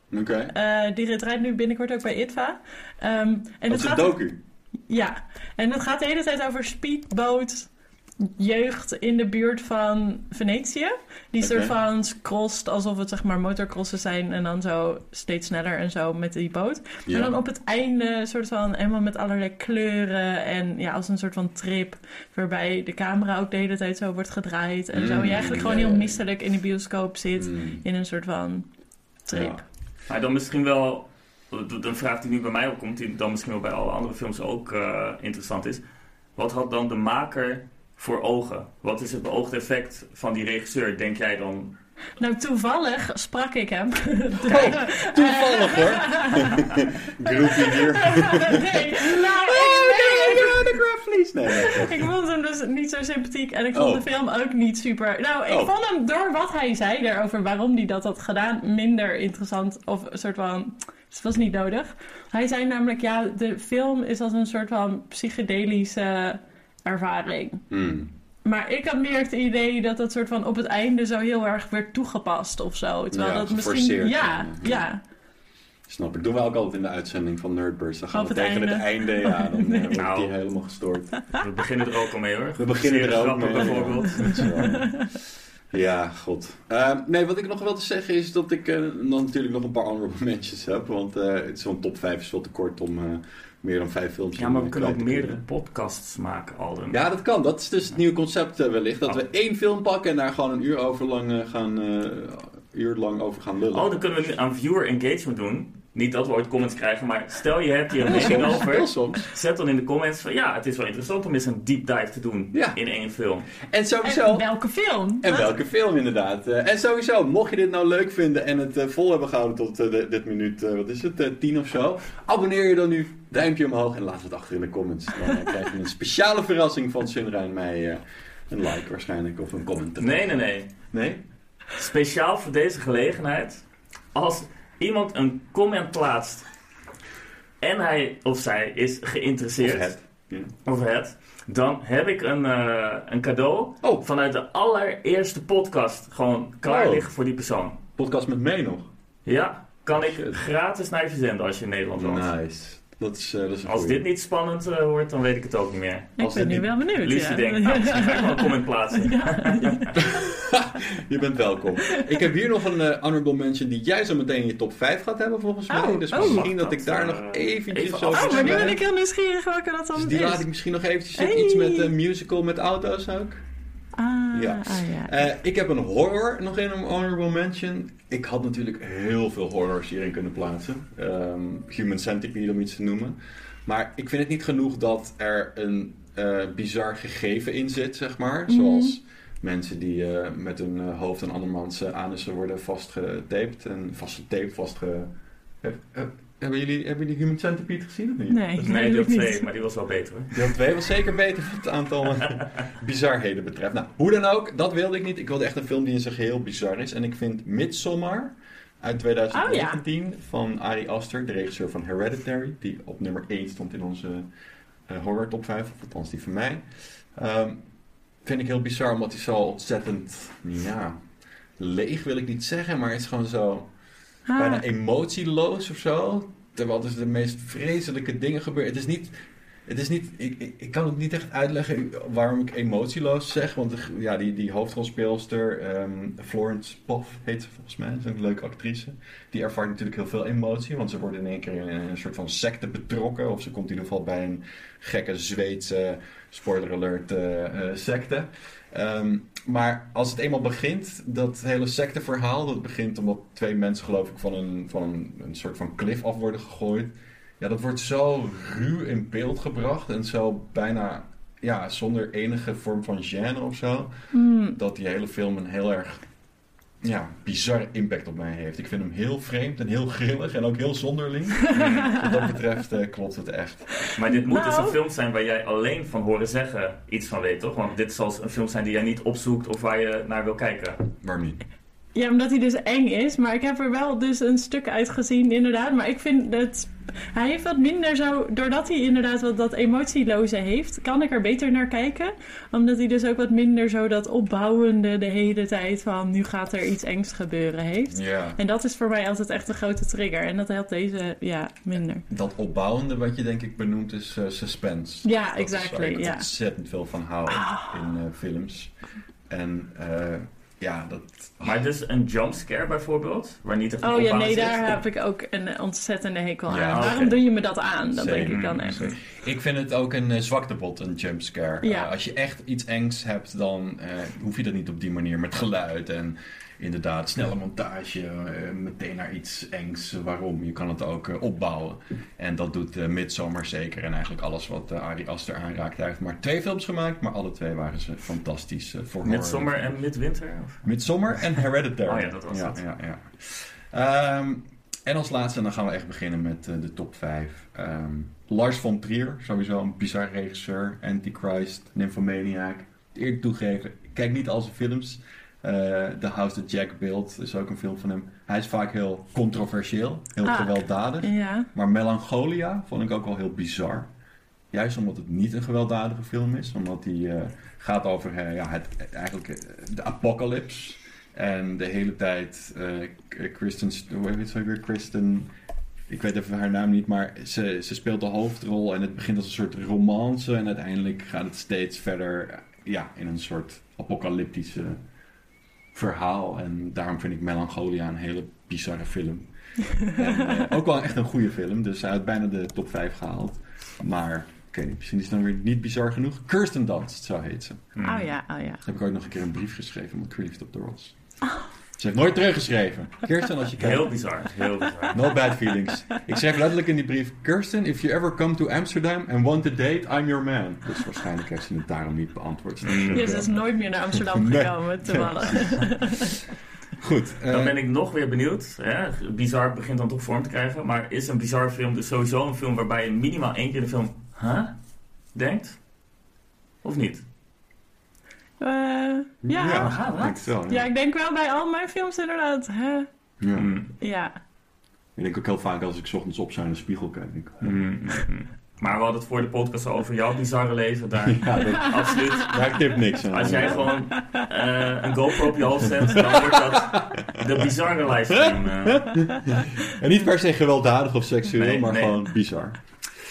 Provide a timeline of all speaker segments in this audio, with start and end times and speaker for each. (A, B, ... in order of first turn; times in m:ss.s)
0:00.1-0:00.5 A
0:00.5-0:04.2 B
0:03.7-0:04.4 A
0:04.9-0:07.7 B
0:08.2-0:28.7 B
0:11.4-0:11.7 A
0:17.1-0:17.3 A
0:24.9-0:26.2 A
0:27.4-0:27.8 A
0:29.2-0:29.6 B
0:29.3-0:29.6 A
0:30.1-0:35.8 C
0:36.4-0:41.8 C
0:42.2-0:50.8 B
0:44.4-0:52.1 A
0:51.5-1:07.6 B
0:53.7-0:54.0 A
1:07.7-1:08.1 A
1:08.4-1:15.0 B
1:13.1-1:14.8 A
1:15.9-1:21.2 A
1:18.1-1:20.0 B
1:19.9-1:20.3 C
1:21.4-1:24.5 C
1:22.6-1:25.1 A
1:24.4-1:25.0 B
1:25.7-1:35.4 A
1:34.4-1:37.0 C
1:36.9-1:43.9 A
1:43.7-1:53.5 C
1:48.0-1:49.2 A
1:53.5-1:54.4 A
1:54.0-1:55.5 B
1:55.2-2:10.3 A
2:10.0-2:10.7 C
2:10.8-2:11.2 A
2:11.8-2:16.4 C
2:17.6-2:19.9 C
2:19.6-2:20.5 A
2:20.6-2:27.8 C
2:26.6-2:27.1 A
2:28.0-2:28.9 A
2:29.2-2:32.3 C
2:32.0-2:34.0 A
2:33.6-2:36.2 C
2:36.2-2:40.2 B
2:36.2-2:36.6 A
2:36.9-2:40.0 C
2:40.0-2:48.8 A
2:45.7-2:46.5 B
2:46.1-2:48.8 C
2:48.1-2:50.4 B
2:49.9-2:53.4 A
2:51.2-2:51.9 B
2:54.0-2:55.2 B
2:54.3-3:18.7 A
3:08.5-3:09.0 B
3:18.3-3:19.4 B
3:18.6-3:20.5 C
3:20.3-3:34.3 A
3:29.3-3:29.8 B
3:34.9-3:36.6 A
3:37.1-3:37.6 A
3:38.2-3:41.0 A
3:41.6-3:43.7 A
3:44.3-3:44.6 B
3:44.4-3:49.1 A
3:49.6-4:23.9 A
4:24.1-4:24.6 B
4:24.5-4:26.0 A
4:26.8-4:33.7 A
4:31.8-4:32.0 B
4:34.0-4:40.8 C
4:34.3-4:34.8 B
4:41.0-4:41.4 A
4:41.9-5:02.0 B
4:57.9-4:58.4 A
5:02.1-5:08.7 A
5:05.0-5:06.3 B
5:07.3-5:07.8 B
5:09.3-5:11.6 A
5:11.4-5:14.8 C
5:13.8-5:18.9 B
5:16.5-5:17.2 A
5:16.7-5:17.2 C
5:17.9-5:39.6 A
5:18.3-5:18.9 C
5:21.6-5:21.9 B
5:39.0-5:40.6 C
5:40.6-6:03.9 A
5:41.9-5:42.6 C
6:00.2-6:01.5 B
6:04.5-6:15.3 A
6:15.9-6:24.8 A
6:25.7-6:29.3 A
6:29.9-6:37.6 A
6:37.7-6:38.1 C
6:37.8-6:38.6 B
6:38.6-6:40.9 A
6:41.8-6:43.9 A
6:43.6-6:45.2 C
6:44.9-6:53.4 A
6:52.6-6:53.2 C
6:52.9-6:56.2 B
6:53.9-6:55.6 A
6:56.8-6:57.6 A
6:57.3-7:04.5 C
7:05.1-7:05.6 C
7:06.6-7:07.0 C
7:08.4-7:12.9 B
7:09.2-7:10.7 A
7:09.6-7:10.1 C
7:13.2-7:13.5 A
7:13.4-7:13.7 C
7:13.8-7:14.1 B
7:15.0-7:17.6 A
7:17.4-7:22.4 C
7:21.0-7:23.7 A
7:23.1-7:29.1 C
7:24.0-7:24.2 B
7:25.9-7:27.5 A
7:28.1-7:32.6 A
7:31.3-7:32.0 C